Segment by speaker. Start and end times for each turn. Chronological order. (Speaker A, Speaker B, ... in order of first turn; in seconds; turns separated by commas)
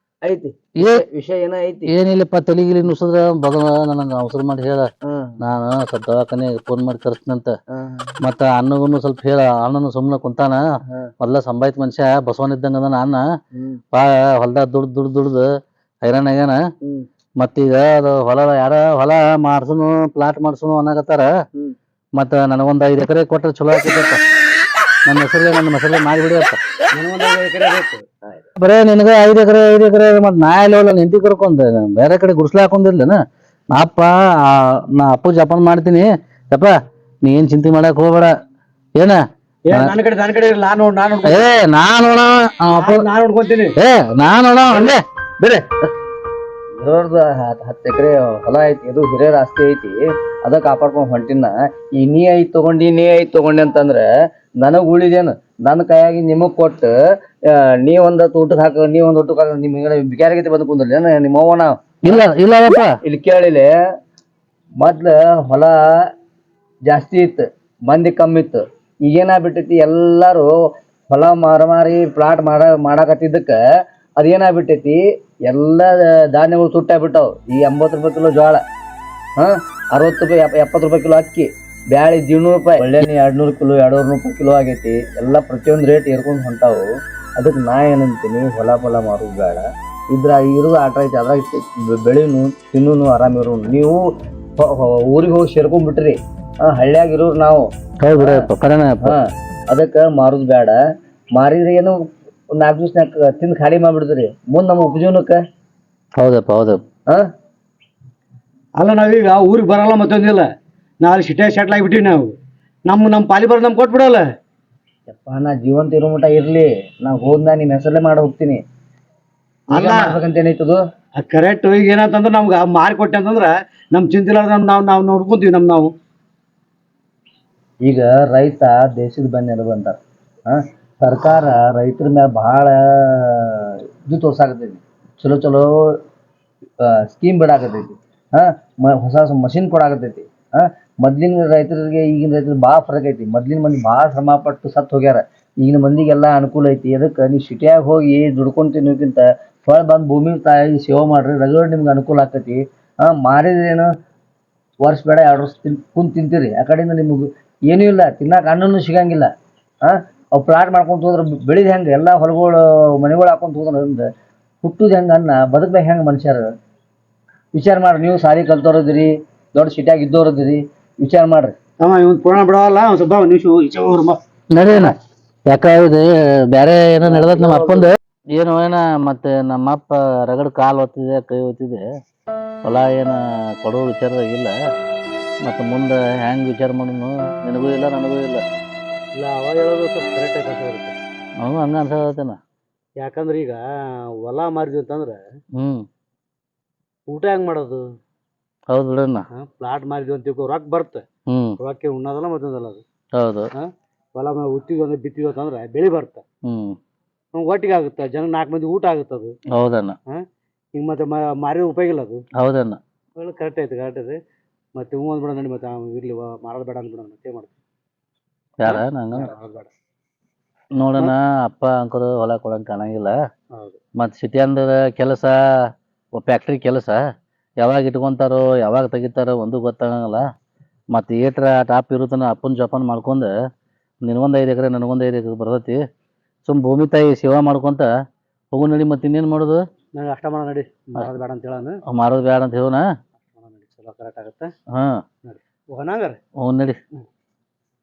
Speaker A: 0.2-1.9, Speaker B: 0.8-1.1, Speaker B: 1.9-4.9, Speaker A: 5.0-5.4, Speaker B: 5.4-7.5, Speaker A: 7.7-8.1, Speaker B: 8.2-10.6, Speaker B: 11.2-13.2, Speaker A: 13.6-13.8, Speaker B: 13.9-15.5, Speaker B: 16.0-16.6, Speaker A: 16.8-17.1, Speaker B: 17.4-21.3, Speaker B: 22.2-24.2, Speaker B: 25.1-26.6, Speaker C: 26.9-28.1, Speaker B: 28.6-33.2, Speaker B: 33.7-38.3, Speaker C: 39.7-41.5, Speaker B: 41.2-43.1, Speaker C: 42.7-43.8, Speaker B: 43.8-45.7, Speaker A: 46.8-54.0, Speaker A: 54.6-56.9, Speaker A: 57.5-62.2, Speaker B: 62.0-63.0, Speaker A: 63.0-63.7, Speaker A: 64.8-65.8, Speaker A: 66.9-70.5, Speaker A: 71.1-73.6, Speaker A: 74.2-78.6, Speaker A: 79.4-86.8, Speaker A: 87.4-94.0, Speaker A: 94.6-97.7, Speaker B: 98.0-99.2, Speaker A: 98.2-98.5, Speaker A: 99.0-100.8, Speaker A: 101.3-101.9, Speaker A: 102.5-105.4, Speaker B: 106.2-106.8, Speaker C: 108.8-110.5, Speaker C: 111.0-112.3, Speaker C: 112.9-114.2, Speaker A: 115.1-118.6, Speaker C: 119.7-120.2, Speaker A: 119.7-120.8, Speaker C: 121.2-125.9, Speaker A: 127.8-130.0, Speaker A: 130.5-135.7, Speaker A: 136.8-153.9, Speaker A: 154.8-159.3, Speaker A: 159.8-164.1, Speaker A: 164.6-166.5, Speaker A: 167.6-171.6, Speaker C: 171.8-174.2, Speaker B: 174.5-175.0, Speaker B: 175.5-181.8, Speaker A: 177.0-177.9, Speaker B: 182.6-184.5, Speaker B: 185.4-188.4, Speaker C: 189.2-191.0, Speaker B: 191.4-192.4, Speaker C: 193.0-195.2, Speaker B: 195.6-195.9, Speaker C: 197.1-197.8, Speaker B: 198.7-199.2, Speaker C: 199.3-201.0, Speaker B: 201.3-201.6, Speaker C: 201.6-202.8, Speaker B: 203.2-203.5, Speaker C: 203.6-206.2, Speaker B: 206.4-206.8, Speaker C: 207.3-209.3, Speaker B: 209.5-210.0, Speaker C: 210.8-212.2, Speaker B: 212.4-212.8, Speaker C: 213.2-214.2, Speaker C: 214.8-217.5, Speaker B: 218.6-219.3, Speaker C: 218.6-219.7, Speaker B: 220.8-223.1, Speaker C: 223.5-223.8, Speaker B: 224.0-225.3, Speaker B: 226.2-227.0, Speaker B: 227.6-230.2, Speaker B: 230.9-233.3, Speaker B: 234.1-235.8, Speaker B: 236.4-237.9, Speaker B: 238.5-239.6, Speaker C: 239.9-241.8, Speaker B: 241.9-242.8, Speaker C: 243.3-244.5, Speaker C: 245.2-246.2, Speaker B: 246.4-246.8